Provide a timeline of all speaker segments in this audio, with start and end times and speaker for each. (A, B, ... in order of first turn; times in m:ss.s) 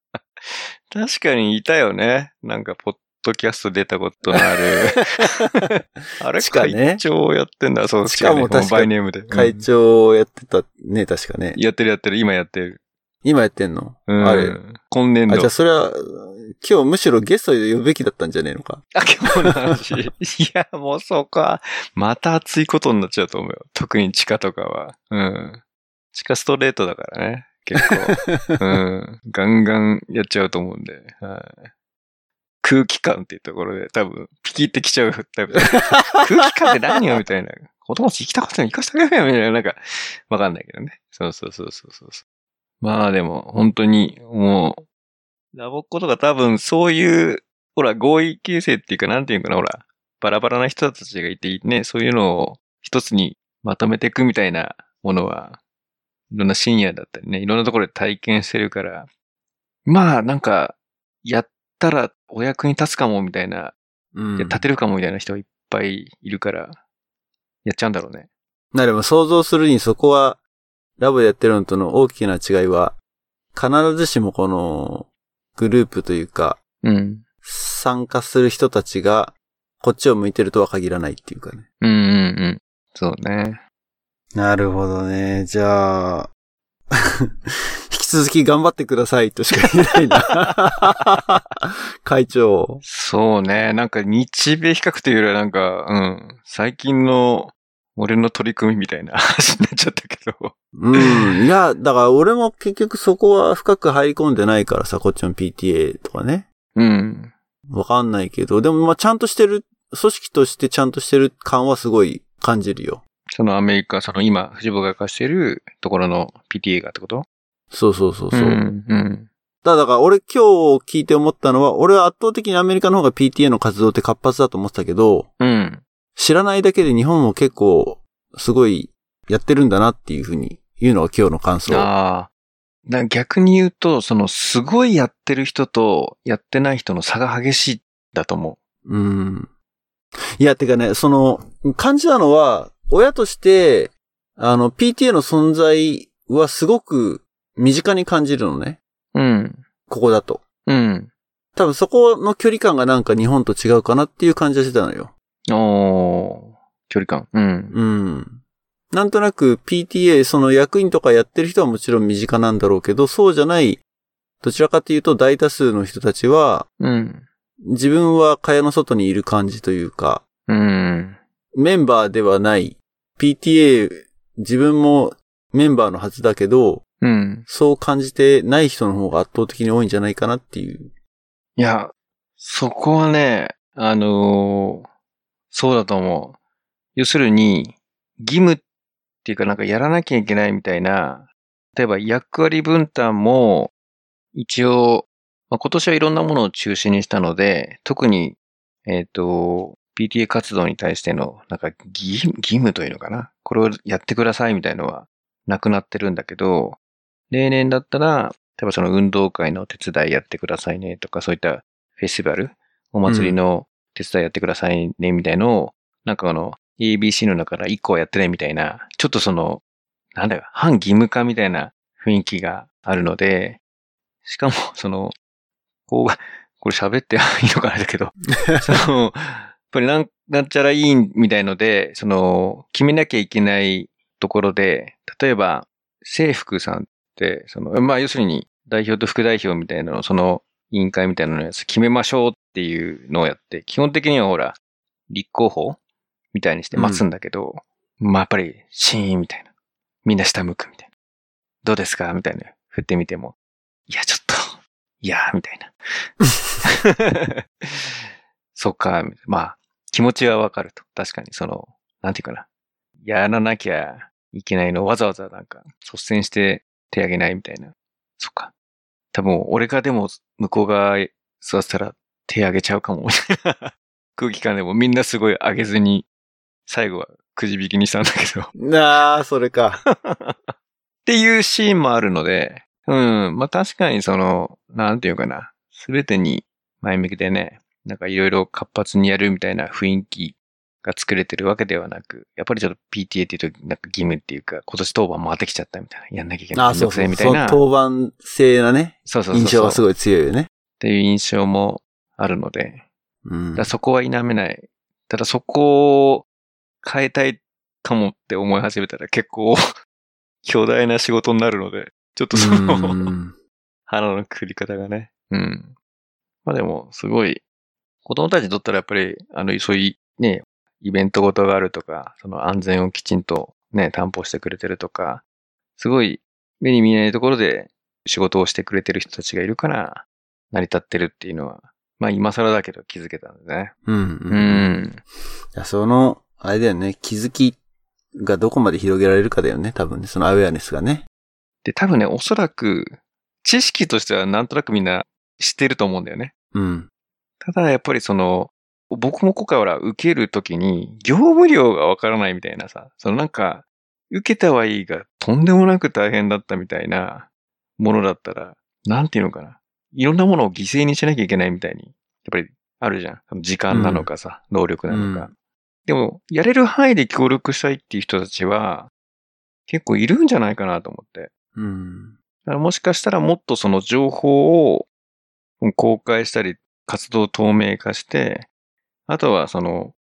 0:00.5-0:09.7 A
0:04.3-0:05.6 B
0:06.4-0:07.0 B
0:08.1-0:11.6 B
0:11.6-0:12.8 A
0:13.2-0:14.6 B
0:14.1-0:15.5 A
0:15.3-0:19.8 B
0:18.9-0:25.6 A
0:26.1-0:31.7 A
0:27.9-0:28.6 B
0:32.6-0:42.2 A
0:42.8-0:44.8 A
0:45.5-0:55.6 A
0:56.3-0:59.1 A
0:59.9-1:03.8 A
1:04.1-1:04.6 B
1:04.4-1:06.8 A
1:07.6-1:08.3 A
1:08.7-1:10.4 B
1:11.0-1:13.0 B
1:13.5-1:16.6 B
1:16.8-1:17.2 A
1:17.4-1:21.6 B
1:21.8-1:23.6 A
1:24.3-1:26.3 B
1:26.9-1:32.8 B
1:32.8-1:41.4 A
1:40.8-1:46.5 B
1:46.8-1:47.3 A
1:47.7-1:53.0 B
1:53.3-1:57.3 A
1:57.7-1:58.6 B
1:58.3-1:59.3 A
1:59.6-2:05.3 B
2:05.4-2:05.8 A
2:06.2-2:11.9 B
2:11.7-2:12.3 A
2:12.9-2:18.6 A
2:18.8-2:19.5 B
2:20.4-2:28.8 B
2:29.1-2:29.6 A
2:29.9-2:30.4 B
2:30.7-2:31.1 A
2:31.6-2:35.1 B
2:35.5-2:37.8 A
2:37.7-2:43.8 B
2:44.4-2:46.7 B
2:46.8-2:47.3 A
2:47.6-2:50.2 B
2:50.5-2:51.2 A
2:51.5-2:56.8 B
2:57.0-2:57.5 A
2:57.5-3:00.9 B
3:01.6-3:04.9 A
3:05.5-3:06.4 A
3:07.0-3:08.6 A
3:09.2-3:13.7 A
3:14.4-3:26.8 A
3:27.3-3:39.6 A
3:33.1-3:33.4 B
3:40.2-3:43.6 A
3:44.2-3:45.2 A
3:45.9-4:05.8 A
3:48.4-3:48.8 B
4:06.3-4:09.5 A
4:06.7-4:07.0 B
4:10.0-4:10.9 A
4:11.6-4:13.4 A
4:13.9-4:16.1 A
4:16.6-4:17.4 A
4:18.6-4:22.5 A
4:23.0-4:28.5 A
4:29.1-4:36.1 A
4:36.7-4:38.5 A
4:38.6-4:39.8 B
4:39.9-4:40.5 A
4:41.1-4:57.6 A
4:56.5-5:00.5 B
4:59.1-4:59.8 A
5:00.8-5:02.8 A
5:03.2-5:03.7 B
5:03.6-5:06.3 A
5:06.8-5:09.6 A
5:10.4-5:13.1 A
5:12.3-5:13.4 B
5:13.9-5:15.8 A
5:16.4-5:17.4 A
5:18.0-5:25.2 A
5:25.8-5:33.8 A
5:33.9-5:34.7 B
5:34.3-5:35.0 A
5:35.5-5:37.6 B
5:38.2-5:41.1 B
5:41.6-5:46.3 A
5:46.5-5:46.9 B
5:47.4-6:05.3 A
6:03.7-6:04.1 B
6:04.9-6:05.3 B
6:05.9-6:08.9 A
6:09.7-6:11.3 A
6:11.6-6:12.2 B
6:12.4-6:14.9 A
6:15.6-6:18.5 A
6:19.1-6:19.9 A